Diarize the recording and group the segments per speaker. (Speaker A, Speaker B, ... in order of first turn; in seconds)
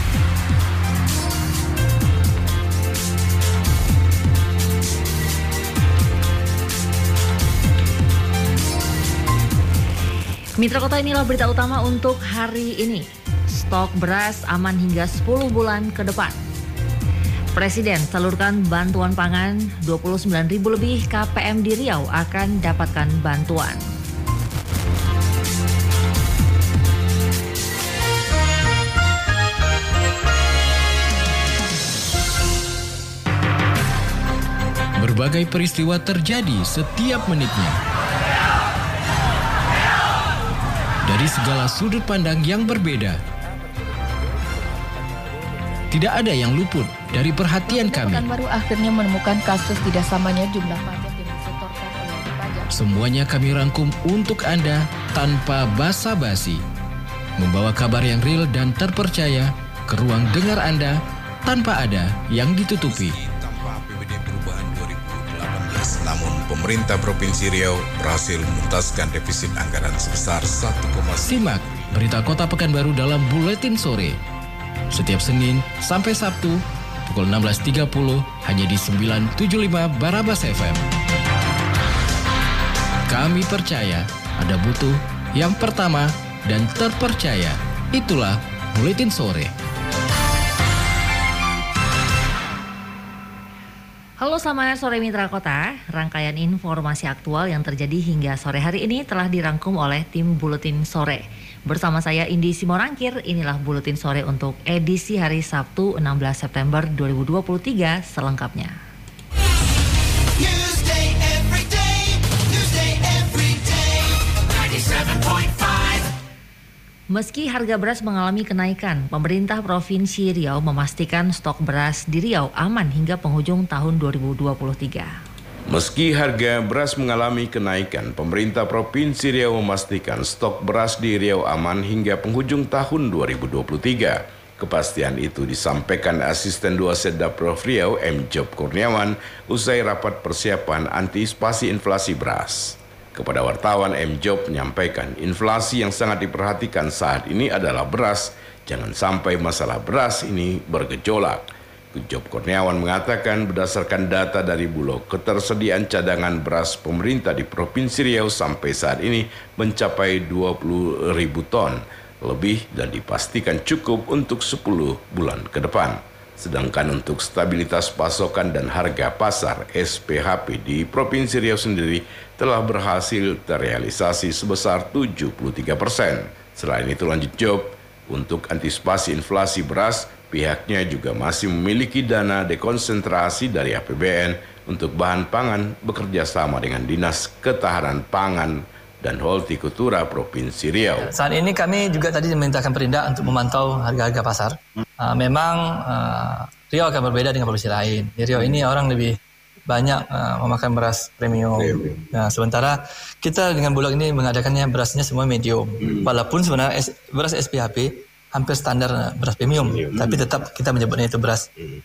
Speaker A: 10.6-16.4, 17.5-23.8, 94.2-108.8, 110.4-114.0, 114.7-116.0, 117.1-125.1
Speaker B: 35.0-37.8, 41.1-43.2, 45.9-48.3, 52.7-56.6, 57.4-63.2, 71.2-74.2, 74.9-80.9, 83.1-89.5
Speaker C: 47.7-52.7
Speaker D: 62.9-66.3, 67.2-69.1, 125.7-191.1
Speaker E: 63.4-71.6
Speaker F: 191.1-211.5